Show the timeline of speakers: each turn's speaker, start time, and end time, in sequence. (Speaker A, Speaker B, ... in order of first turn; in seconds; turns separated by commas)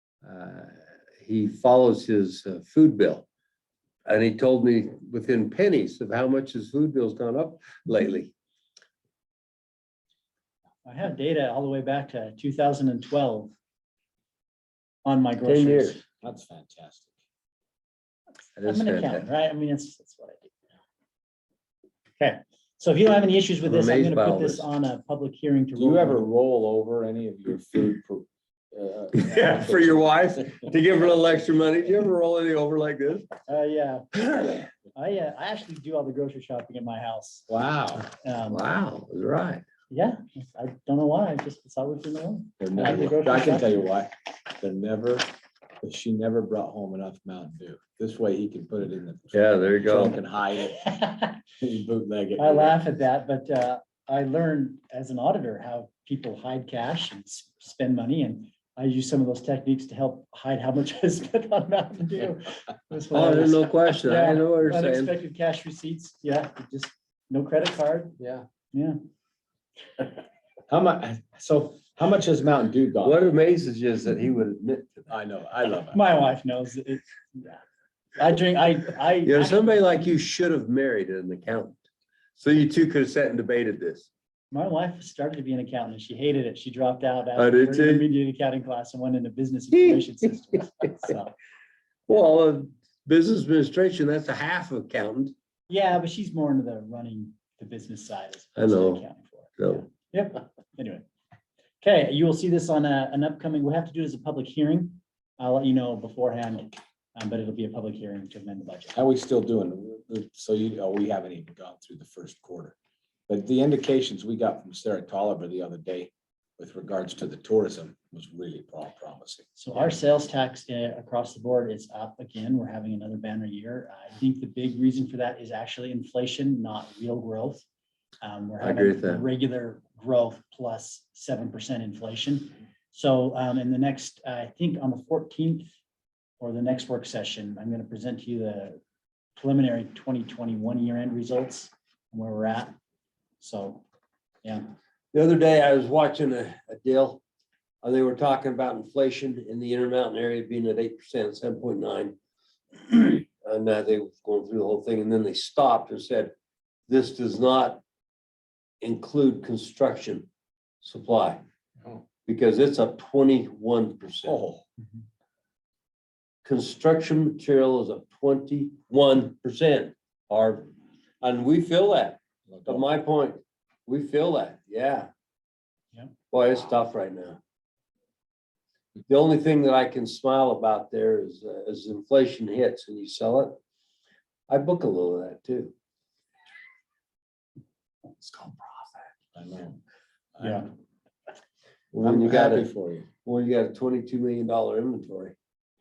Speaker A: 0.2-3.3, Speaker A: 4.1-8.3, Speaker B: 10.8-13.5, Speaker B: 15.1-16.0, Speaker A: 15.4-16.0, Speaker C: 16.2-17.1, Speaker A: 18.6-19.3, Speaker B: 18.6-20.5, Speaker B: 22.2-26.3, Speaker A: 23.6-24.7, Speaker C: 25.8-30.3, Speaker A: 29.1-33.3, Speaker B: 33.5-34.4, Speaker B: 34.9-37.5, Speaker C: 37.5-38.1, Speaker B: 38.2-38.6, Speaker A: 38.5-39.7, Speaker B: 39.9-43.8, Speaker C: 42.6-45.3, Speaker C: 45.8-51.0, Speaker A: 49.3-50.2, Speaker B: 50.8-51.4, Speaker C: 51.6-52.8, Speaker B: 52.4-68.2, Speaker A: 63.1-65.1, Speaker C: 70.7-73.2, Speaker A: 73.0-75.1, Speaker C: 75.1-76.0, Speaker B: 75.9-77.6, Speaker B: 78.2-79.8, Speaker A: 79.2-81.8, Speaker A: 82.4-84.1, Speaker B: 84.5-91.3, Speaker A: 87.4-88.0, Speaker A: 92.1-95.3, Speaker B: 95.7-101.0, Speaker A: 98.6-99.0, Speaker A: 99.6-99.8, Speaker B: 101.8-108.9, Speaker C: 108.9-112.8, Speaker C: 113.3-119.5, Speaker B: 119.6-127.6, Speaker B: 128.2-135.7, Speaker A: 128.6-129.3, Speaker B: 136.4-138.8, Speaker B: 139.4-142.8, Speaker B: 143.4-143.8, Speaker B: 144.4-144.7, Speaker A: 145.1-147.2, Speaker A: 147.8-152.2, Speaker A: 152.9-156.3, Speaker A: 156.9-157.8, Speaker A: 158.8-160.3, Speaker A: 160.8-161.4, Speaker A: 162.2-164.4, Speaker C: 164.2-164.6, Speaker A: 166.4-170.7, Speaker A: 171.2-175.1, Speaker C: 172.5-172.8, Speaker A: 176.3-177.4, Speaker A: 179.1-183.6, Speaker A: 184.5-185.7, Speaker C: 189.3-189.8, Speaker C: 190.4-190.7, Speaker B: 190.4-190.7, Speaker A: 191.9-192.7, Speaker C: 192.0-193.1, Speaker A: 193.2-195.3